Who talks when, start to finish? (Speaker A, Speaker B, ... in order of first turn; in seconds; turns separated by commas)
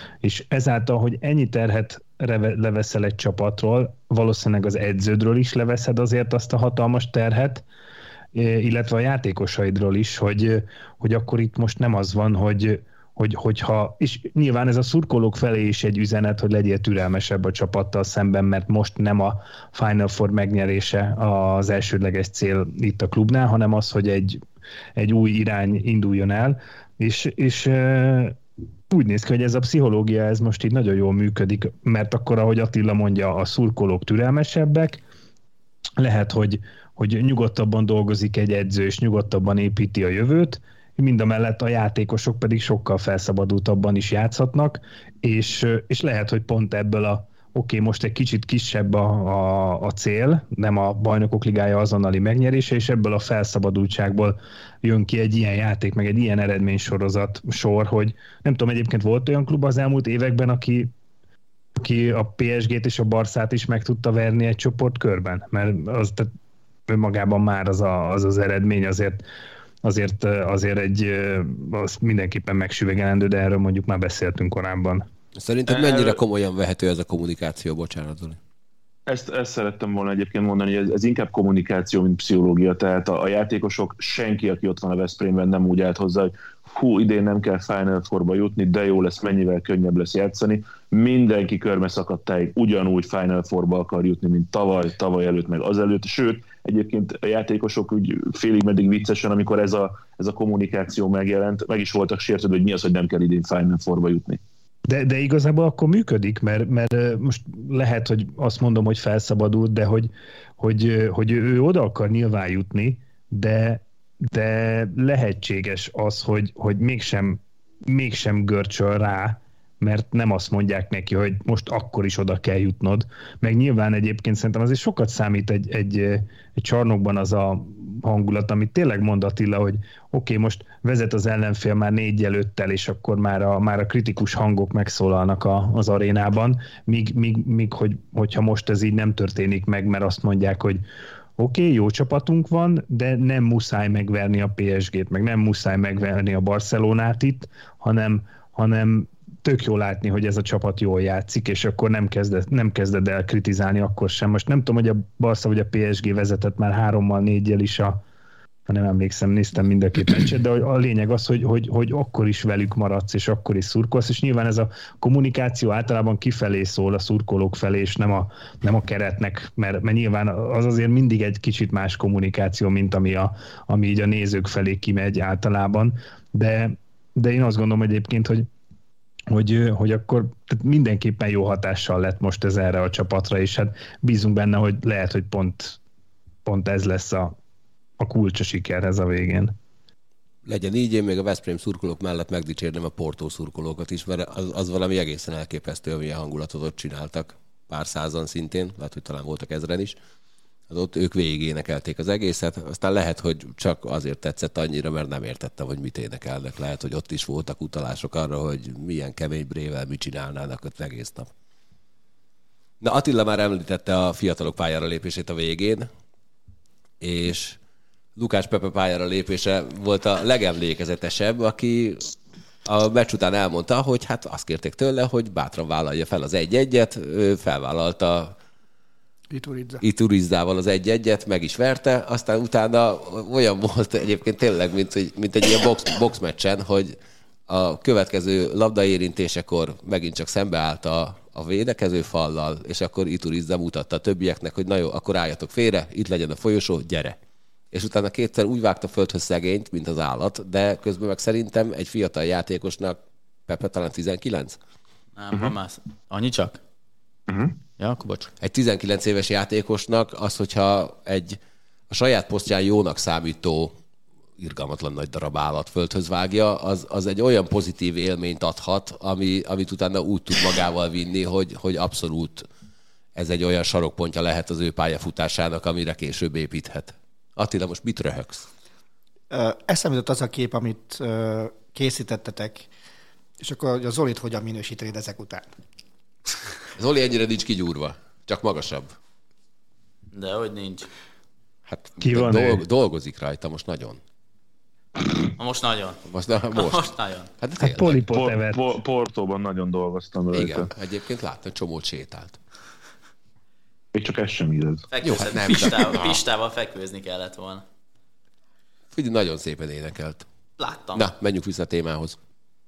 Speaker A: 0.2-7.6, Speaker A: 8.3-24.4, Speaker A: 24.9-28.4, Speaker A: 28.9-35.0, Speaker A: 36.0-60.9, Speaker A: 61.8-66.3, Speaker A: 66.9-69.2, Speaker A: 69.8-75.0, Speaker B: 75.4-78.4, Speaker C: 75.7-76.2, Speaker C: 79.1-104.4, Speaker A: 104.9-140.8, Speaker A: 141.4-158.0, Speaker A: 158.7-178.5, Speaker A: 179.3-185.8, Speaker A: 186.4-187.3, Speaker A: 188.0-189.5, Speaker B: 190.4-199.9, Speaker B: 200.7-211.3, Speaker B: 212.8-215.9, Speaker B: 217.0-217.6, Speaker B: 218.2-222.1, Speaker B: 222.6-228.3, Speaker D: 229.3-229.8, Speaker B: 229.8-236.9, Speaker B: 237.5-247.2, Speaker B: 247.7-254.6, Speaker E: 255.2-256.6, Speaker C: 257.3-257.6, Speaker E: 257.8-258.3, Speaker B: 258.4-261.4, Speaker B: 261.9-263.7, Speaker B: 264.4-272.4, Speaker B: 273.1-278.4, Speaker D: 279.3-282.7, Speaker D: 283.4-285.5, Speaker B: 286.7-288.9, Speaker E: 290.1-290.9, Speaker B: 291.7-294.0, Speaker A: 292.0-292.6, Speaker E: 295.3-296.0, Speaker B: 296.0-298.0, Speaker E: 296.5-297.3, Speaker A: 297.6-298.7, Speaker C: 298.1-300.7, Speaker B: 300.3-302.4, Speaker C: 303.9-304.9, Speaker E: 304.9-307.6, Speaker B: 305.0-306.2, Speaker B: 308.9-310.2, Speaker E: 310.6-311.1, Speaker B: 310.9-312.2